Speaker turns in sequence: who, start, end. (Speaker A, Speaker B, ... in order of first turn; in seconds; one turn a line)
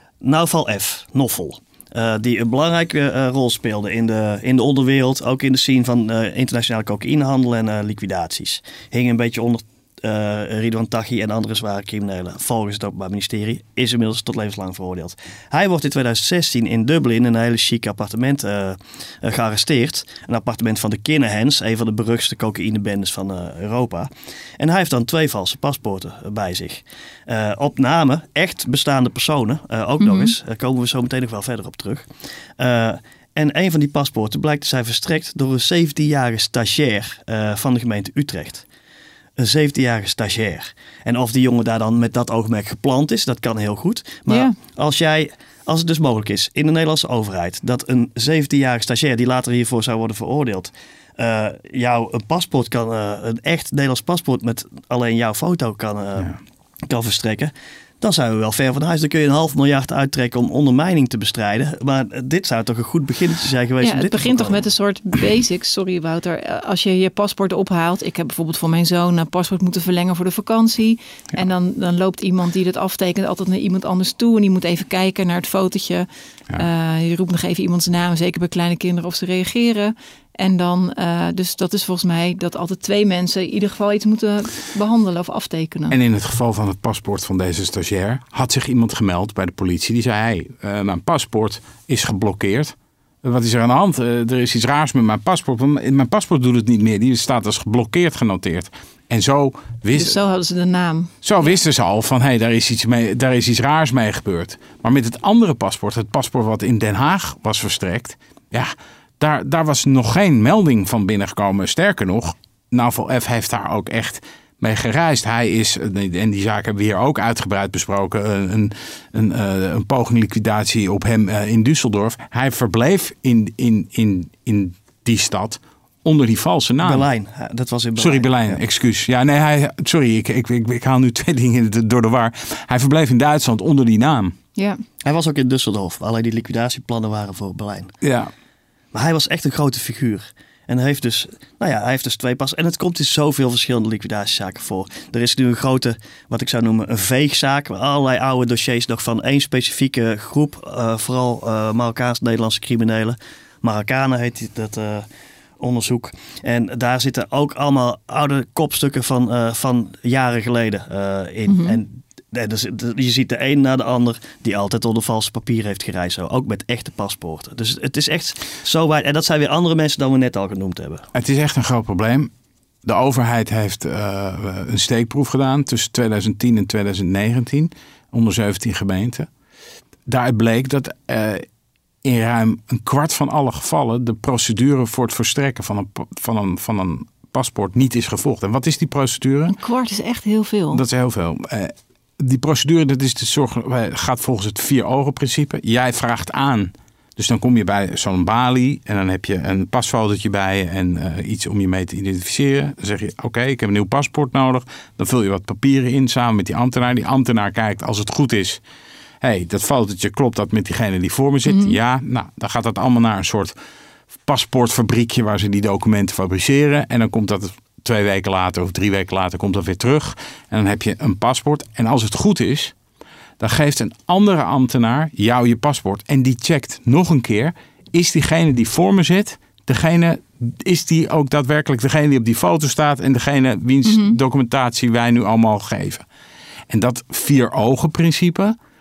Speaker A: 0.2-32.1
Speaker B: 30.0-30.3
Speaker A: 32.6-38.6
Speaker A: 39.4-56.3
Speaker B: 44.3-44.5
Speaker A: 56.9-64.6
Speaker B: 63.8-86.0
Speaker C: 85.9-100.2
Speaker B: 99.9-101.5
Speaker C: 101.2-127.0
Speaker A: 126.8-128.6
Speaker C: 128.0-134.3
Speaker B: 134.6-134.8
Speaker A: 135.0-137.9
Speaker C: 138.0-138.3
Speaker A: 138.9-155.1
Speaker A: 155.6-171.1
Speaker B: 161.5-161.8
Speaker C: 171.1-172.3
Speaker C: 172.8-179.3
Speaker C: 180.1-181.4
Speaker C: 182.0-189.6
Speaker B: 189.5-190.8
Speaker C: 190.7-208.6
Speaker C: 209.2-213.6
Speaker B: 211.5-211.8
Speaker C: 214.3-222.8
Speaker C: 223.4-236.1
Speaker B: 233.8-234.2
Speaker C: 236.7-238.6